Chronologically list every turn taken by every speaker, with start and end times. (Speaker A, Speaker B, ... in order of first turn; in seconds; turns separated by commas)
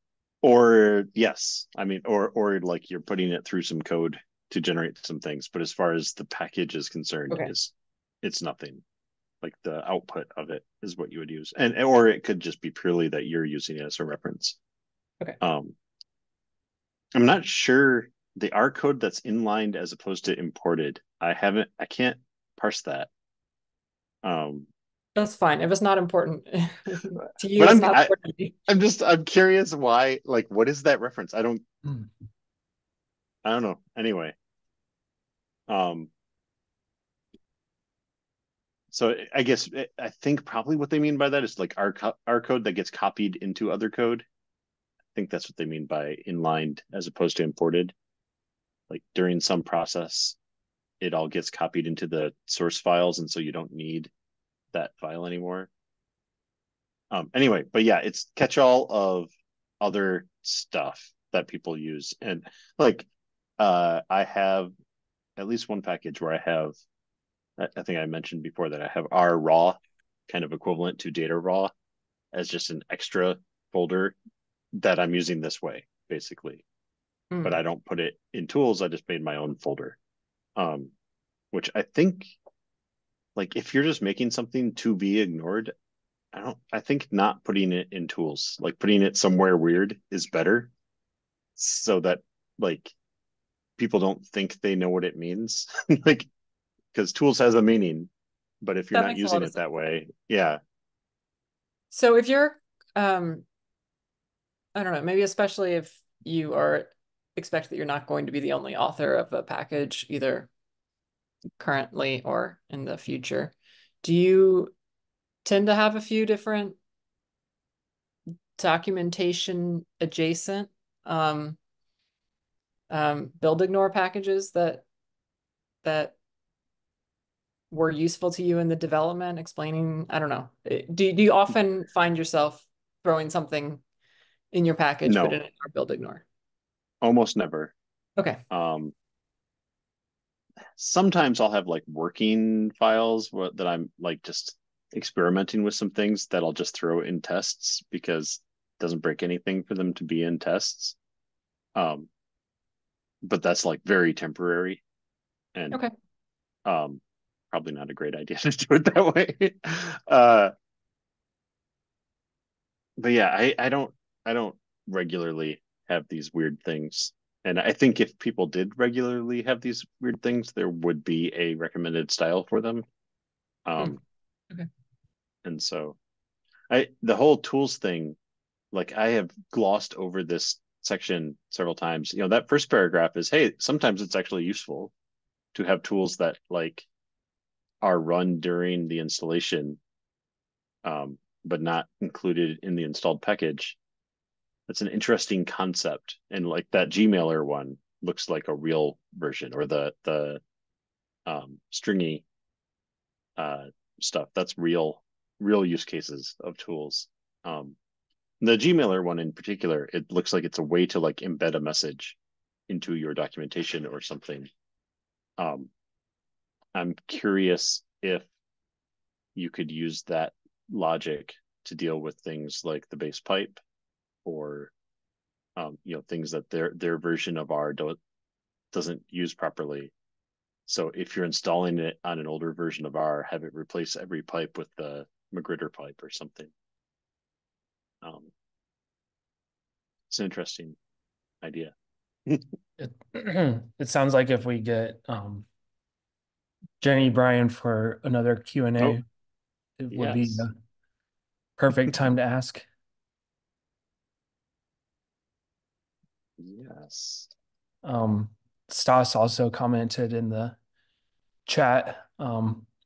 Speaker A: 0.4-8.8, Speaker A: 9.4-14.6, Speaker A: 15.4-15.7, Speaker A: 17.1-23.1, Speaker A: 24.2-24.7, Speaker B: 25.1-28.5, Speaker A: 27.5-28.1, Speaker A: 28.7-31.6, Speaker A: 33.4-34.3, Speaker A: 35.7-36.1, Speaker A: 38.9-44.2, Speaker A: 45.1-47.9, Speaker A: 48.9-50.4, Speaker A: 51.0-54.1, Speaker A: 54.7-55.7, Speaker A: 57.1-63.1, Speaker A: 63.6-64.7, Speaker A: 65.4-66.7, Speaker A: 67.6-71.7, Speaker A: 72.3-74.2, Speaker A: 74.7-76.6, Speaker B: 77.3-77.6, Speaker A: 77.4-80.0, Speaker A: 80.6-80.9, Speaker A: 81.5-82.3, Speaker A: 83.3-85.7, Speaker A: 86.3-90.7, Speaker A: 91.5-92.9, Speaker A: 93.8-96.3, Speaker A: 96.9-98.1, Speaker A: 98.6-100.6, Speaker B: 98.9-99.6, Speaker B: 101.9-103.4, Speaker B: 104.7-110.5, Speaker B: 111.6-114.7, Speaker B: 115.4-116.8, Speaker B: 118.6-121.6, Speaker B: 122.9-124.8, Speaker B: 125.8-126.1, Speaker B: 127.7-133.8, Speaker B: 134.5-136.2, Speaker A: 135.0-135.4, Speaker A: 137.0-137.7, Speaker A: 138.5-138.9, Speaker A: 140.8-150.9, Speaker A: 151.7-152.1, Speaker A: 153.2-154.8, Speaker A: 155.5-155.8, Speaker A: 156.7-157.0, Speaker A: 157.5-160.5, Speaker A: 163.0-172.8, Speaker A: 173.6-174.0, Speaker A: 175.4-176.0, Speaker A: 176.7-178.2, Speaker A: 178.7-184.9, Speaker A: 185.5-186.9, Speaker A: 187.8-189.8, Speaker A: 190.8-193.8, Speaker A: 194.7-200.4, Speaker A: 201.2-202.2, Speaker A: 203.4-207.8, Speaker A: 208.4-212.2, Speaker A: 212.7-214.5, Speaker A: 215.4-215.7, Speaker A: 216.7-218.3, Speaker A: 219.3-223.6, Speaker A: 224.2-224.7, Speaker A: 225.6-228.0, Speaker A: 228.7-229.9, Speaker A: 230.7-236.5, Speaker A: 238.0-238.3, Speaker A: 240.1-240.8, Speaker A: 241.4-241.7, Speaker C: 242.8-245.5, Speaker C: 246.8-249.0, Speaker C: 249.8-250.5, Speaker A: 249.9-250.4, Speaker C: 251.6-252.7, Speaker A: 256.4-257.3, Speaker C: 257.8-260.6, Speaker C: 261.4-262.7